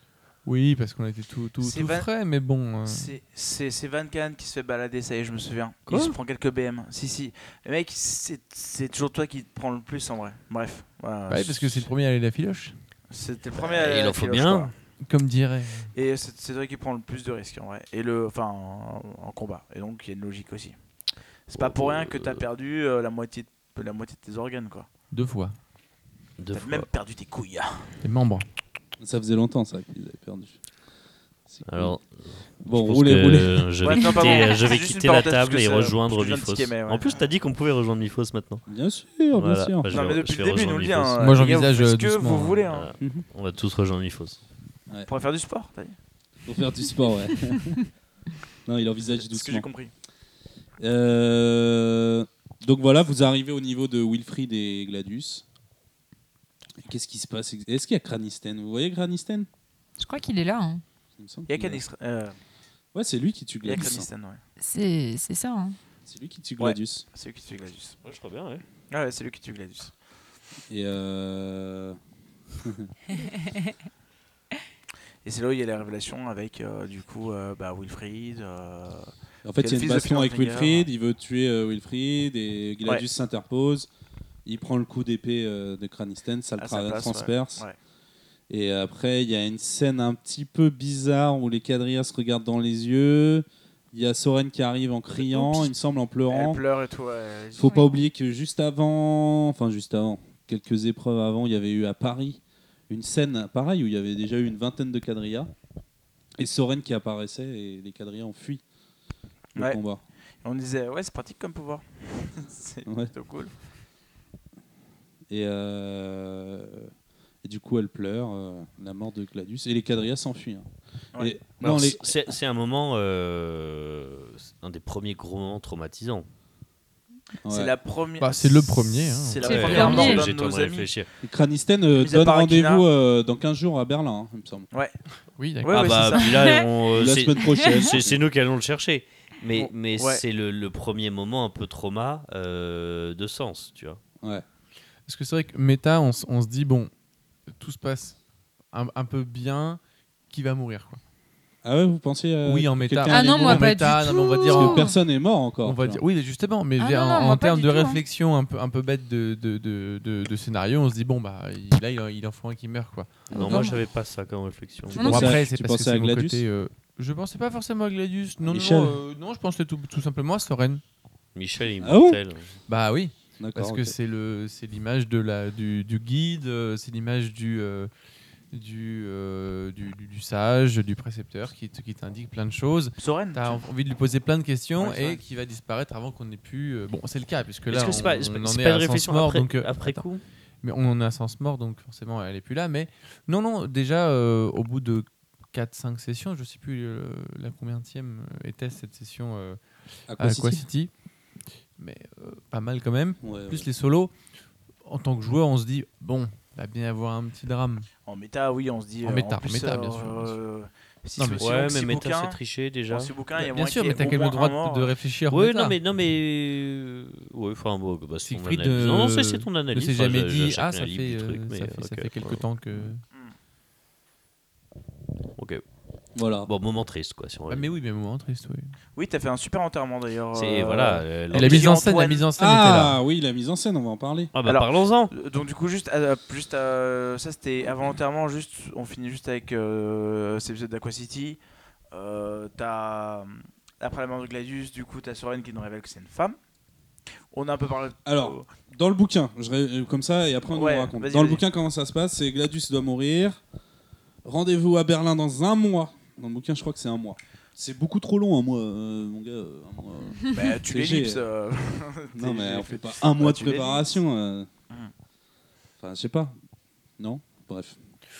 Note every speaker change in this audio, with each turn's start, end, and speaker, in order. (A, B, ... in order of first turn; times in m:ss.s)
0:00.4-0:03.1 A
0:01.6-0:02.1 B
0:02.9-0:11.9 B
0:05.9-0:06.2 C
0:11.3-0:12.8 A
0:13.1-0:14.7 B
0:13.5-0:14.7 C
0:15.0-0:15.9 A
0:15.9-0:20.8 B
0:21.5-0:24.9 B
0:21.5-0:22.4 C
0:25.1-0:25.6 A
0:26.4-0:26.9 C
0:26.5-0:27.9 B
0:28.0-0:28.5 A
0:29.0-0:30.6 D
0:31.5-0:32.0 D
0:31.7-0:38.6 C
0:32.6-0:33.7 D
0:33.8-0:37.2 B
0:34.0-0:34.7 E
0:38.7-0:40.0 D
0:39.3-0:41.3 C
0:39.9-0:42.9 B
0:41.2-0:42.6 A
0:42.7-0:44.4 C
0:43.0-0:43.2 D
0:45.1-0:46.0 B
0:46.5-0:47.8 D
0:48.7-0:49.7 D
0:49.3-0:49.9 B
0:50.8-0:55.4 D
0:56.8-0:59.5 D
1:00.0-1:00.8 E
1:01.2-1:01.8 D
1:01.5-1:02.4 B
1:02.9-1:04.1 D
1:03.6-1:04.4 B
1:04.6-1:05.8 E
1:06.0-1:07.0 D
1:06.6-1:08.0 B
1:08.0-1:08.6 C
1:08.9-1:09.9 B
1:10.7-1:12.0 D
1:12.6-1:12.9 D
1:13.2-1:13.6 E
1:15.2-1:20.9 B
1:19.4-1:23.9 D
1:24.4-1:27.6 D
1:26.6-1:27.8 B
1:28.5-1:36.6 D
1:35.2-1:35.6 B
1:36.3-1:37.7 B
1:37.6-1:45.5 D
1:37.6-1:37.9 E
1:46.4-1:48.6 D
1:49.6-1:50.0 D
1:50.4-1:53.5 B
1:52.9-1:53.1 D
1:55.3-1:56.9 D
1:57.4-2:02.3 D
2:01.6-2:06.3 C
2:07.4-2:07.7 D
2:07.5-2:10.9 B
2:08.2-2:10.1 A
2:09.4-2:11.1 C
2:09.5-2:10.2 E
2:11.2-2:14.7 D
2:12.0-2:12.8 B
2:14.7-2:15.0 B
2:15.4-2:16.0 A
2:15.6-2:16.6 B
2:15.7-2:24.0 C
2:16.2-2:16.7 E
2:16.9-2:18.2 D
2:17.5-2:17.8 E
2:19.6-2:20.2 B
2:25.1-2:26.9 A
2:27.5-2:28.2 A
2:28.7-2:31.0 A
2:31.6-2:36.0 D
2:32.4-2:34.9 A
2:33.1-2:35.0 E
2:35.6-2:43.7 A
2:36.8-2:38.0 E
2:43.3-2:45.3 C
2:43.3-2:43.8 E
2:44.9-2:45.4 E
2:44.9-2:50.8 A
2:45.0-2:46.4 D
2:48.4-2:49.0 D
2:51.4-2:52.5 C
2:51.8-2:52.2 D
2:52.7-2:57.9 A
2:53.4-2:54.0 D
2:58.5-3:10.0 A
3:03.0-3:03.6 B
3:04.8-3:05.2 B
3:07.7-3:10.2 C
3:10.6-3:19.6 A
3:20.1-3:20.7 D
3:20.2-3:20.9 A
3:21.8-3:24.1 A
3:23.2-3:23.7 D
3:24.8-3:27.9 A
3:28.1-3:32.4 B
3:29.0-3:30.4 A
3:31.4-3:33.1 C
3:32.9-3:34.9 B
3:33.4-3:35.8 A
3:35.3-3:42.4 C
3:38.2-3:43.0 A
3:45.4-3:45.6 C
3:46.2-3:46.5 D
3:46.4-3:47.7 C
3:47.5-3:48.7 A
3:49.0-3:52.3 B
3:50.3-3:51.8 C
3:51.3-3:53.0 A
3:52.4-3:54.3 D
3:54.3-3:55.1 C
3:54.4-4:01.4 B
4:01.9-4:06.4 B
4:07.3-4:08.5 B
4:08.1-4:13.4 D
4:10.5-4:11.4 B
4:14.2-4:21.2 D
4:20.3-4:24.0 B
4:22.1-4:24.5 D
4:25.8-4:26.3 D
4:27.0-4:27.8 D